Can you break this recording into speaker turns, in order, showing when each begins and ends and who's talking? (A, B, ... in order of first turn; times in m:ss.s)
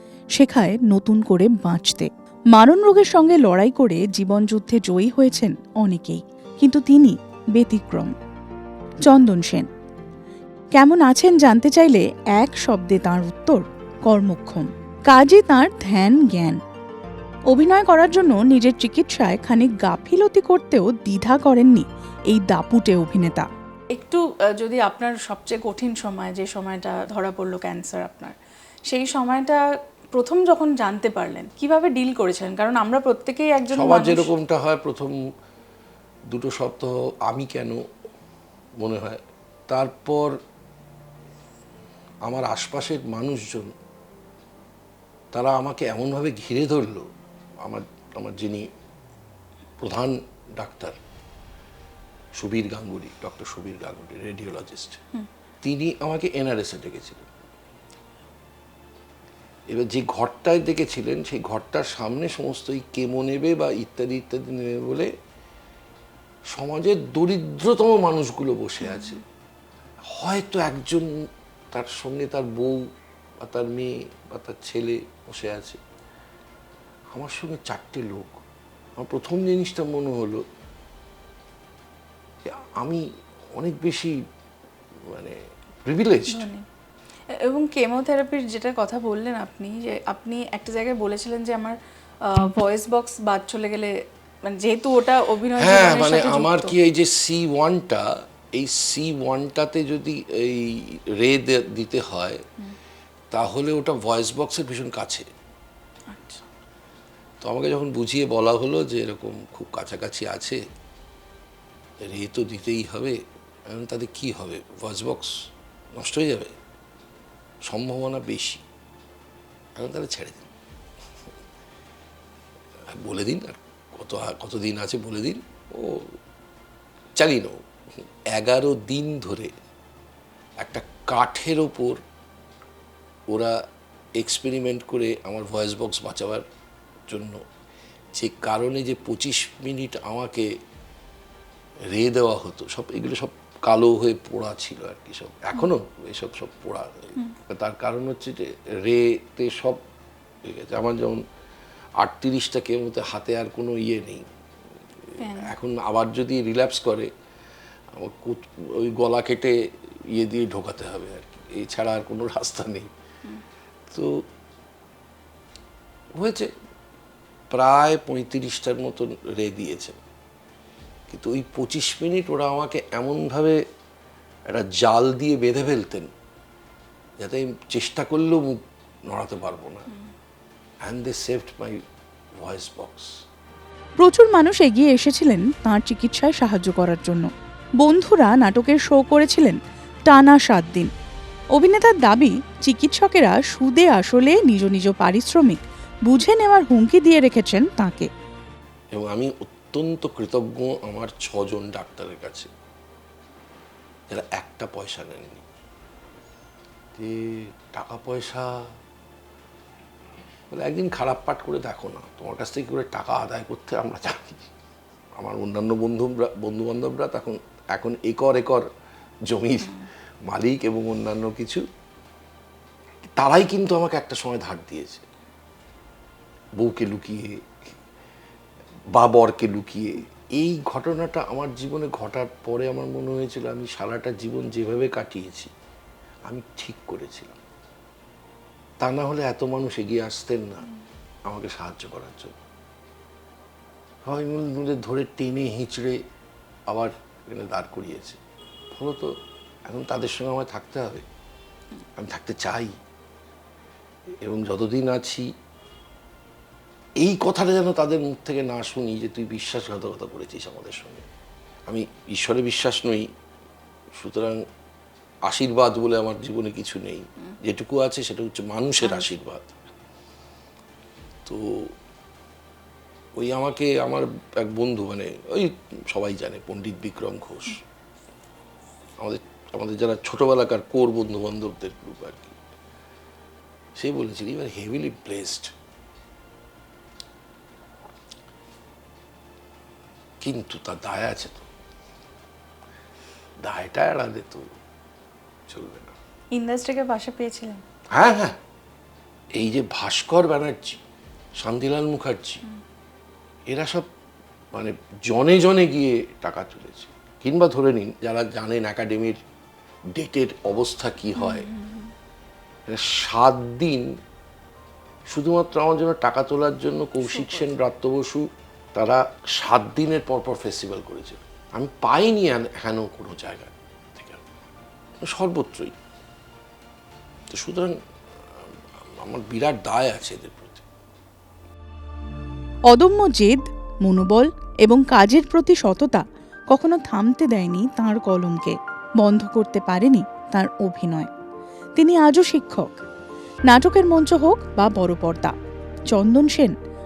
0:00.4-0:08.1 A
0:09.0-0:09.7 A
0:10.8-0:16.6 A
0:17.5-0:23.5 A
0:23.9-0:28.4 B
0:28.9-0:34.3 B
0:33.7-0:35.2 C
0:36.3-0:37.8 C
0:38.8-0:40.3 C
0:42.2-0:43.7 C
0:45.3-0:47.1 C
0:47.6-0:48.7 C
0:49.8-0:51.0 C
0:52.4-0:55.0 C
0:55.6-0:57.3 C
0:59.7-1:05.1 C
1:06.5-1:09.2 C
1:08.9-1:09.2 B
1:10.1-1:11.1 C
1:11.7-1:12.8 C
1:13.4-1:15.8 C
1:17.1-1:18.4 C
1:19.0-1:20.4 C
1:22.8-1:23.0 C
1:23.6-1:24.2 C
1:25.1-1:26.5 C
1:26.3-1:26.6 B
1:27.3-1:36.8 B
1:35.6-1:42.4 C
1:43.3-1:45.3 C
1:46.1-1:46.5 B
1:47.4-1:50.6 C
1:52.0-1:55.3 C
1:56.0-1:56.5 C
1:57.7-1:58.6 C
1:59.8-2:00.5 C
2:02.9-2:06.1 C
2:07.2-2:07.6 C
2:08.3-2:09.5 C
2:10.6-2:12.0 C
2:13.3-2:13.6 C
2:14.2-2:16.4 C
2:17.1-2:17.4 C
2:18.2-2:20.5 C
2:21.9-2:29.8 C
2:30.5-2:31.2 C
2:32.0-2:34.2 C
2:35.1-2:37.1 C
2:35.2-2:35.5 B
2:38.0-2:39.6 C
2:40.1-2:42.9 C
2:46.2-2:46.5 C
2:47.5-2:50.0 C
2:51.1-2:53.6 C
2:54.5-2:56.1 C
2:57.2-2:59.9 C
3:00.9-3:01.8 C
3:02.4-3:03.2 C
3:04.0-3:10.9 A
3:11.5-3:18.1 A
3:18.9-3:22.5 C
3:24.1-3:25.4 C
3:27.0-3:28.6 C
3:30.5-3:34.5 C
3:35.2-3:38.7 C
3:39.3-3:41.6 C
3:43.2-3:45.0 C
3:46.6-3:47.7 C
3:49.0-3:55.5 C
3:56.3-3:57.4 C
3:58.8-4:00.7 C
4:01.3-4:02.4 C
4:04.0-4:06.0 C
4:06.7-4:08.2 C
4:08.7-4:09.2 C
4:09.7-4:11.1 C
4:12.0-4:12.7 C
4:14.2-4:15.3 C
4:17.0-4:21.1 C
4:21.7-4:23.1 C
4:24.0-4:24.4 C
4:25.3-4:29.5 C
4:28.8-4:29.1 B
4:31.3-4:31.7 C
4:33.2-4:37.6 C
4:39.0-4:42.4 C
4:43.8-4:45.5 C
4:50.2-4:51.5 C
4:53.4-4:54.5 C
4:55.5-4:56.0 C
4:56.3-4:57.6 B
4:57.9-4:58.4 C
4:59.4-5:00.8 C
5:01.4-5:02.4 C
5:03.5-5:03.9 C
5:04.5-5:09.2 C
5:10.0-5:11.5 C
5:11.2-5:11.9 B
5:12.7-5:13.9 C
5:15.1-5:24.3 C
5:17.0-5:17.5 B
5:25.1-5:25.8 C
5:27.3-5:27.8 C
5:28.9-5:30.7 C
5:32.7-5:41.1 A
5:41.8-5:42.8 A
5:43.5-5:45.3 A
5:45.9-5:46.5 A